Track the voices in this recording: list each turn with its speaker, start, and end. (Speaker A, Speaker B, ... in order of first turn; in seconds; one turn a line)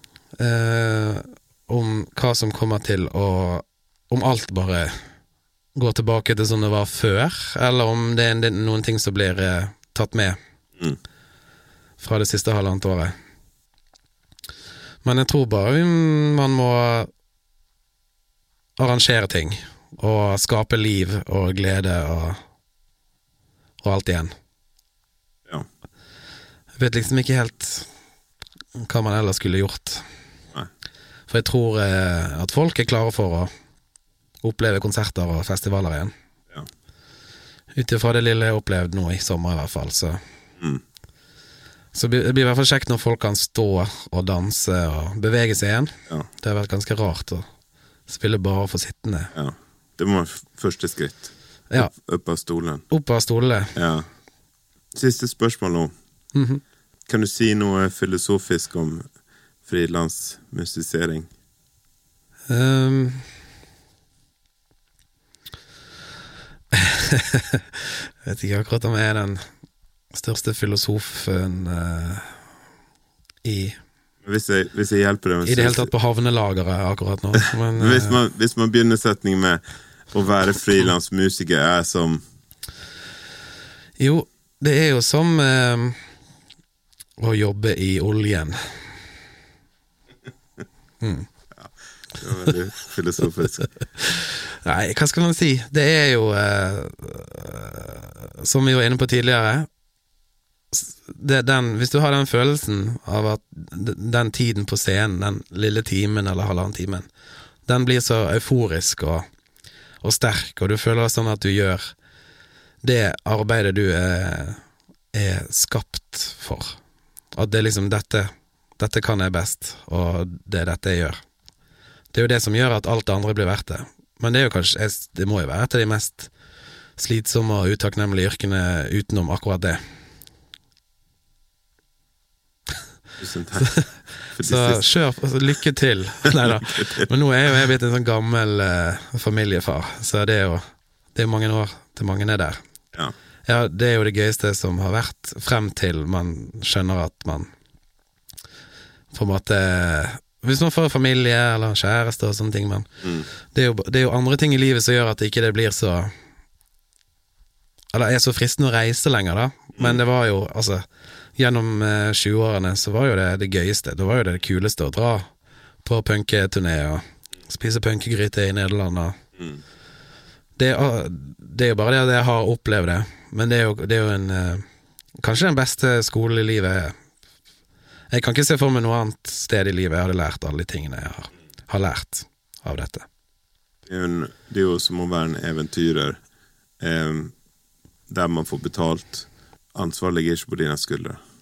Speaker A: 0.4-5.0
Speaker A: 5.7-10.4
Speaker A: 12.0-13.1
Speaker A: 15.0-17.1
Speaker A: 18.8-22.4
Speaker A: 23.8-24.3
Speaker A: 26.8-27.9
Speaker A: 28.8-30.0
Speaker A: 31.3-33.5
Speaker A: 34.4-36.1
Speaker A: 37.7-40.2
Speaker A: 41.9-47.5
Speaker A: 48.1-49.3
Speaker B: 49.3-52.8
Speaker A: 52.9-53.7
Speaker B: 53.7-54.1
Speaker B: 54.9-55.9
Speaker A: 56.3-56.6
Speaker B: 57.1-59.1
Speaker B: 59.6-61.3
Speaker A: 62.5-63.2
Speaker A: 66.7-69.5
Speaker A: 70.1-72.3
Speaker A: 73.4-73.8
Speaker B: 74.2-75.9
Speaker A: 75.4-78.2
Speaker B: 77.8-82.2
Speaker A: 84.0-86.0
Speaker A: 87.2-88.6
Speaker A: 91.0-91.3
Speaker B: 92.2-93.7
Speaker A: 94.0-99.7
Speaker A: 100.7-107.1
Speaker A: 107.7-109.2
Speaker A: 110.0-111.9
Speaker A: 112.8-114.6
Speaker A: 115.1-116.8
Speaker A: 117.3-121.2
Speaker A: 122.1-126.3
Speaker A: 127.0-129.8
Speaker B: 133.2-133.8
Speaker A: 133.6-133.9
Speaker B: 134.3-134.9
Speaker A: 134.4-140.6
Speaker B: 136.7-137.0
Speaker A: 141.1-142.6
Speaker A: 143.4-147.5
Speaker A: 149.1-156.1
Speaker A: 157.9-160.8
Speaker B: 159.8-160.0
Speaker A: 161.3-165.3
Speaker A: 165.8-169.2
Speaker A: 170.6-174.6
Speaker A: 175.2-176.9
Speaker A: 178.1-183.1
Speaker B: 183.8-186.2
Speaker B: 186.8-187.3
Speaker B: 188.1-191.2